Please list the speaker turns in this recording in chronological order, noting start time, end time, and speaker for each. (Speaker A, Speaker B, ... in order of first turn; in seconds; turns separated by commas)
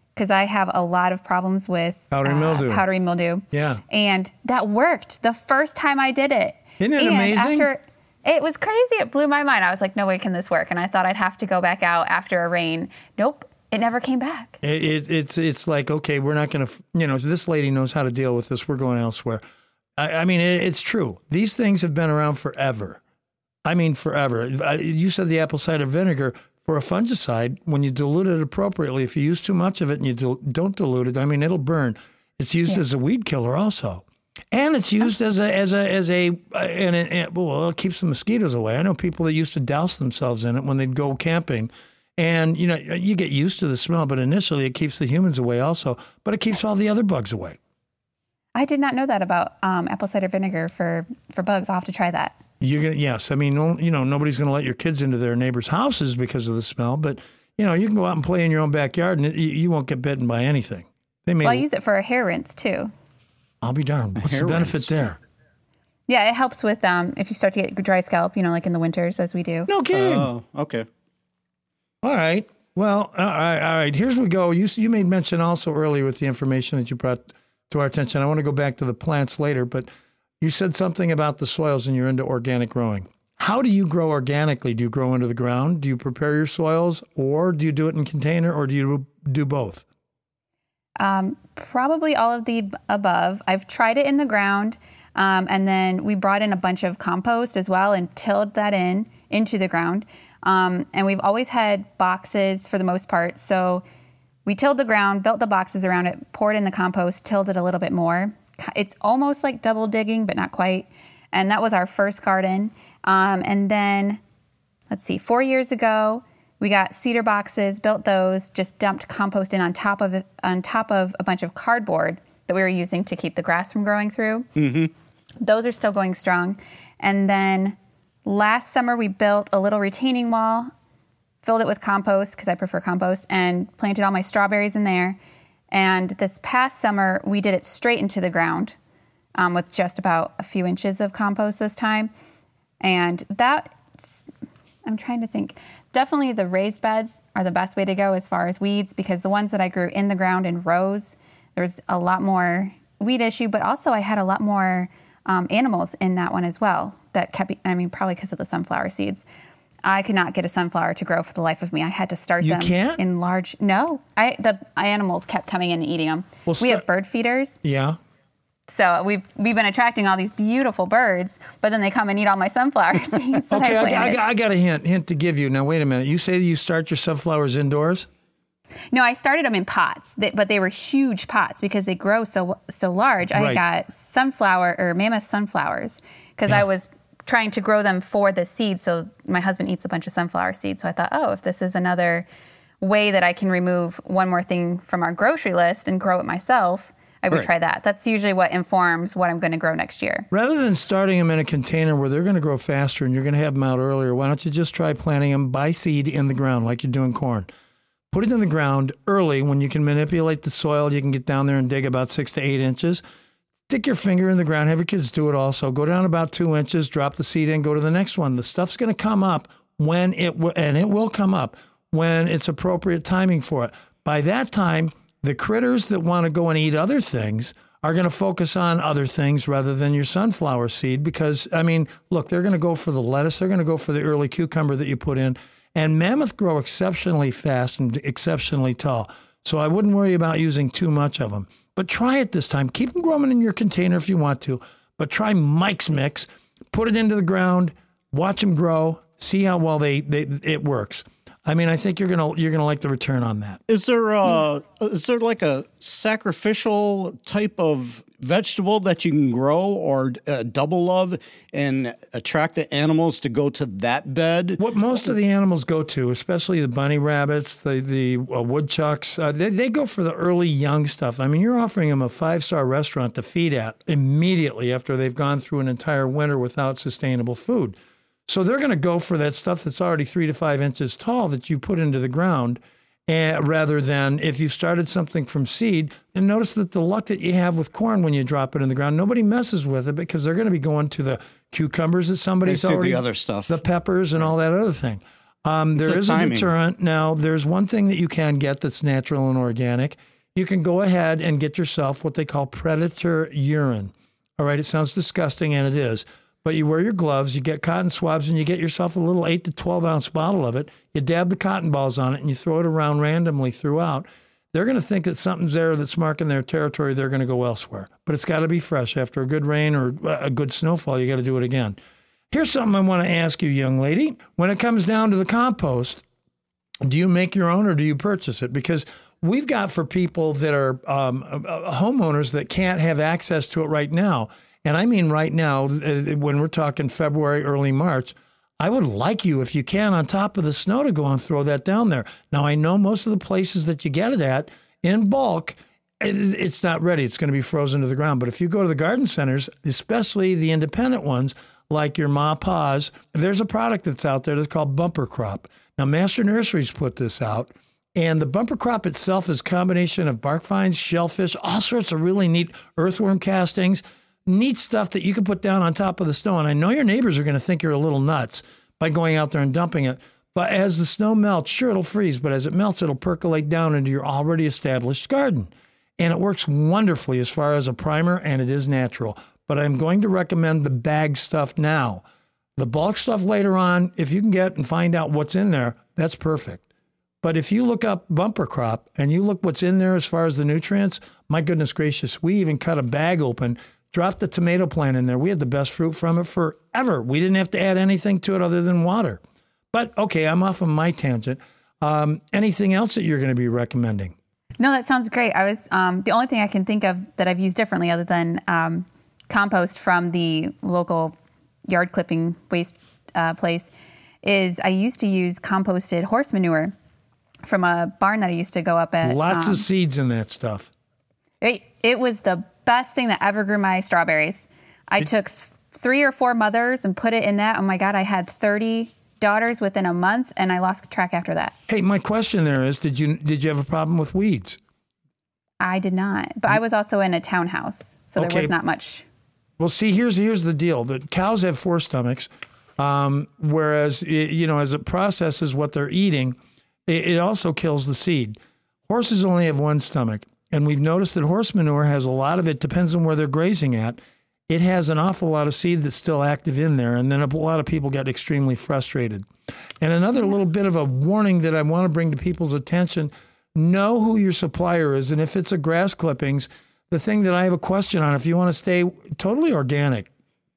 Speaker A: 0.1-14.6, Speaker B: 2.1-2.8, Speaker B: 3.5-3.8, Speaker B: 6.8-7.7, Speaker B: 14.6-19.4, Speaker B: 20.0-23.0, Speaker B: 23.6-47.6, Speaker A: 48.5-52.4, Speaker B: 52.6-61.6, Speaker A: 61.4-62.9, Speaker B: 63.6-65.2, Speaker C: 64.2-65.0, Speaker A: 66.1-69.7, Speaker B: 69.7-70.3, Speaker C: 69.9-70.8, Speaker B: 72.0-79.9, Speaker B: 80.4-89.8, Speaker A: 91.0-103.8, Speaker A: 104.5-114.2, Speaker A: 114.9-124.5, Speaker C: 124.5-124.9, Speaker A: 125.4-130.7, Speaker A: 131.4-135.2, Speaker A: 135.7-138.8, Speaker A: 139.3-142.1, Speaker A: 142.8-144.3, Speaker A: 144.8-159.2, Speaker A: 159.8-167.6, Speaker B: 162.4-163.0, Speaker B: 166.5-166.8, Speaker B: 167.6-168.0, Speaker A: 168.7-174.2, Speaker B: 173.5-178.1, Speaker A: 178.9-192.3, Speaker B: 183.3-183.6, Speaker A: 192.8-200.3, Speaker B: 200.3-207.5, Speaker B: 208.1-213.0, Speaker B: 213.7-253.6, Speaker C: 253.7-264.6, Speaker B: 264.6-277.8, Speaker B: 278.3-321.8, Speaker C: 292.4-293.5, Speaker C: 295.7-296.5, Speaker B: 322.3-326.0, Speaker B: 326.8-382.0, Speaker B: 382.6-386.6, Speaker B: 387.2-399.2, Speaker B: 399.7-404.1, Speaker A: 404.6-411.1, Speaker A: 411.7-413.7, Speaker A: 414.2-416.7, Speaker A: 417.4-419.6, Speaker B: 419.0-420.7, Speaker A: 421.4-431.5, Speaker B: 431.7-434.6, Speaker A: 435.6-439.0, Speaker B: 438.2-438.5, Speaker B: 439.6-442.3, Speaker B: 442.8-448.4, Speaker B: 448.9-459.2, Speaker B: 459.8-470.1